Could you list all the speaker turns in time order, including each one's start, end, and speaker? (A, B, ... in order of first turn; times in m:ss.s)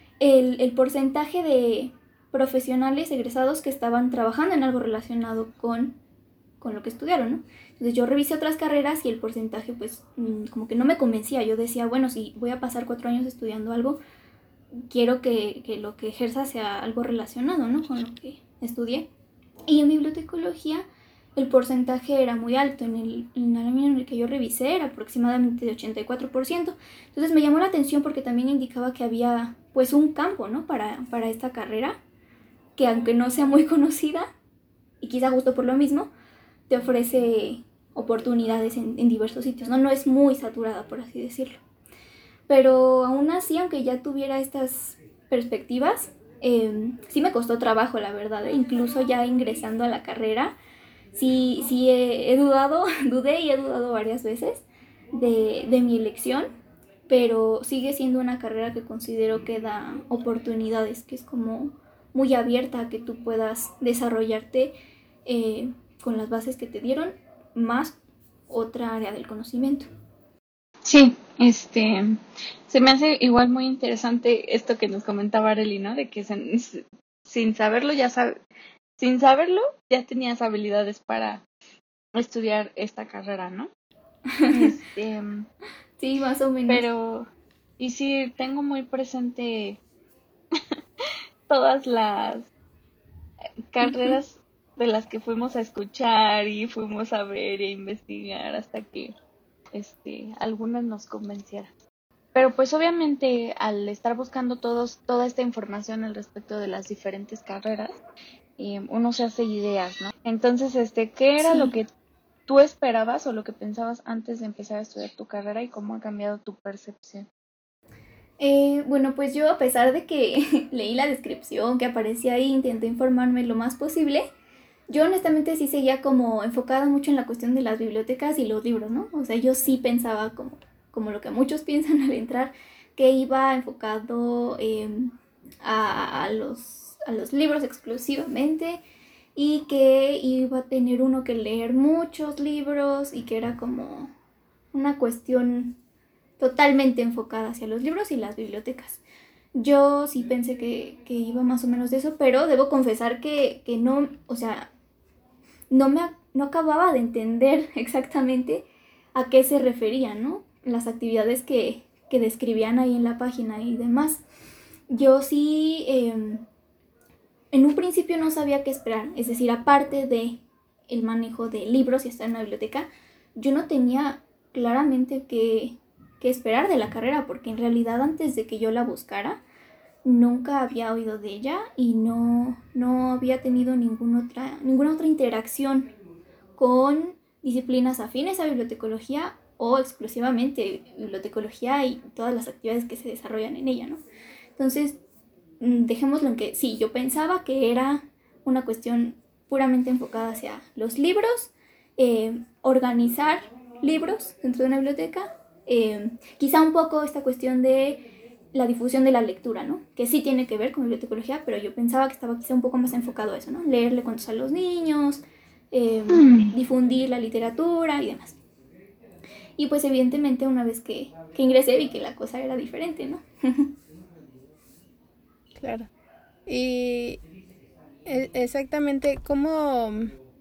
0:00.2-0:06.0 A
0:06.6-0:14.0 A
0:14.9-0:19.1 A
0:19.6-0:32.0 A
0:32.8-0:34.3 A
0:35.0-0:36.1 A
0:36.7-0:41.6 A
0:42.5-0:50.5 A
0:51.1-0:56.5 A
0:57.1-1:04.7 A
1:05.2-1:08.0 A
1:08.5-1:09.9 A
1:10.8-1:12.2 B
1:12.7-1:18.4 B
1:19.0-1:21.4 B
1:22.2-1:23.7 B
1:24.3-1:24.7 A
1:24.5-1:25.5 B
1:26.0-1:26.8 A
1:26.7-1:27.3 B
1:27.8-1:29.8 B
1:31.5-1:32.5 B
1:33.7-1:39.1 B
1:33.8-1:34.2 A
1:39.7-1:41.7 B
1:42.3-1:47.9 B
1:48.6-1:51.9 B
1:51.4-1:51.7 A
1:52.5-1:57.3 B
1:58.4-2:04.3 A
2:04.9-2:18.8 A
2:19.4-2:24.1 A
2:24.7-2:25.8 A
2:26.4-2:29.0 A
2:29.5-2:34.7 A
2:35.7-2:44.2 A
2:44.9-2:46.4 A
2:47.5-2:59.4 A
3:00.0-3:05.9 A
3:06.6-3:14.0 A
3:14.6-3:15.0 A
3:15.6-3:38.4 A
3:36.1-3:36.5 B
3:39.6-3:43.7 A
3:45.6-3:45.9 C
3:46.4-3:47.2 C
3:48.0-3:50.1 C